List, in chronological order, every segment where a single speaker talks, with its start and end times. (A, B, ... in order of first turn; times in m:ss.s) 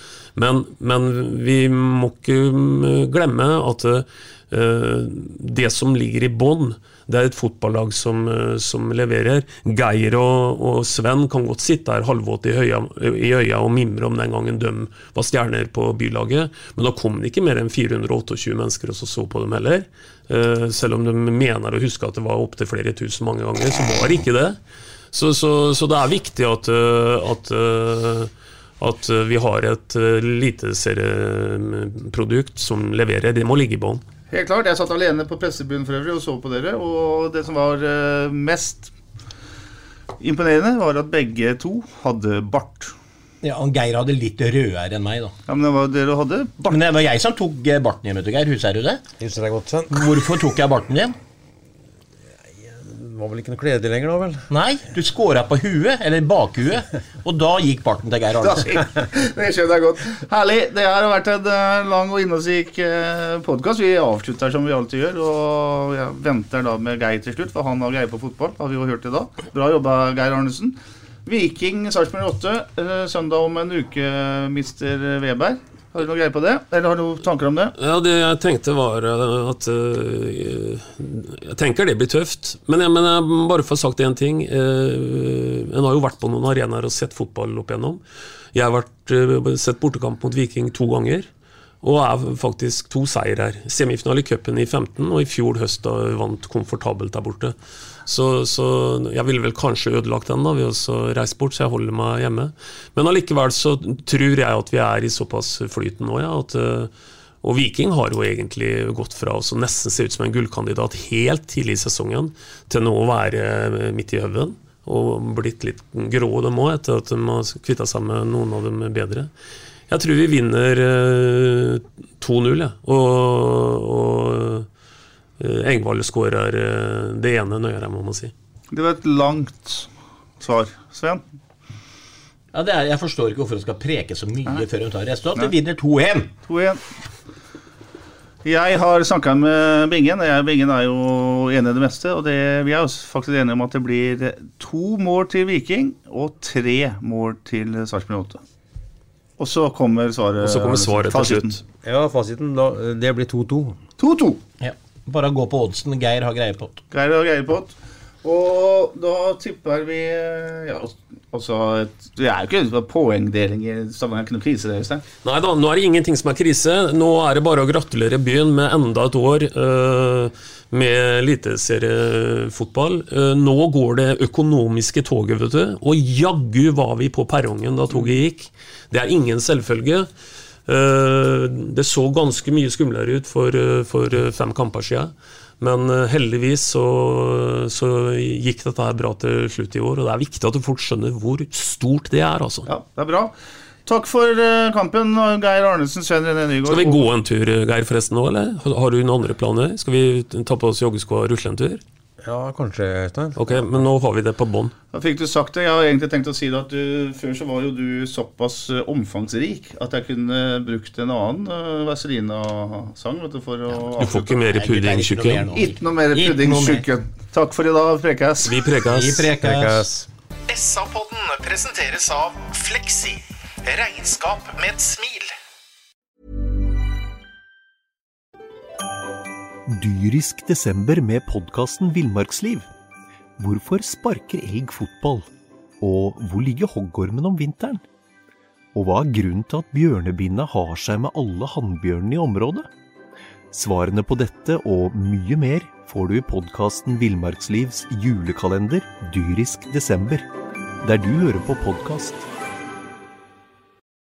0:00.4-0:24.6 A
0:25.1-0:34.0 A
0:34.3-0:38.9 B
0:40.2-0:42.9 B
0:43.4-0:45.3 C
0:45.5-0:46.8 B
0:46.7-0:49.0 C
0:49.2-0:50.2 D
0:49.9-0:51.2 C
0:52.6-0:54.5 D
0:54.5-0:58.7 C
0:58.4-1:17.7 B
1:17.8-1:28.0 A
1:28.5-1:31.3 A
1:31.8-1:37.6 A
1:38.1-1:46.9 A
1:47.4-1:59.3 A
1:59.9-2:04.7 A
2:05.4-2:08.3 A
2:08.7-2:09.9 B
2:10.4-2:11.2 B
2:12.5-2:16.3 C
2:16.5-2:16.8 B
2:18.4-2:28.4 B
2:29.4-2:31.6 B
2:30.4-2:31.6 A
2:31.8-2:33.8 D
2:34.0-2:34.4 B
2:34.6-2:36.8 C
2:36.9-2:45.0 B
2:45.2-3:00.1 A
3:00.7-3:12.7 A
3:12.7-3:13.3 B
3:13.9-3:17.0 B
3:16.7-3:21.8 A
3:22.2-3:23.9 D
3:23.4-3:24.7 A
3:24.9-3:34.2 B
3:34.0-3:35.4 A
3:34.0-3:36.8 C
3:35.5-3:39.1 B
3:38.4-3:39.8 A
3:38.9-3:40.1 D
3:40.5-3:45.3 E
3:49.7-3:52.7 F
3:53.4-3:55.3 F
3:55.8-3:57.8 F
3:58.7-4:02.7 F
4:03.5-4:10.2 F
4:10.8-4:12.2 F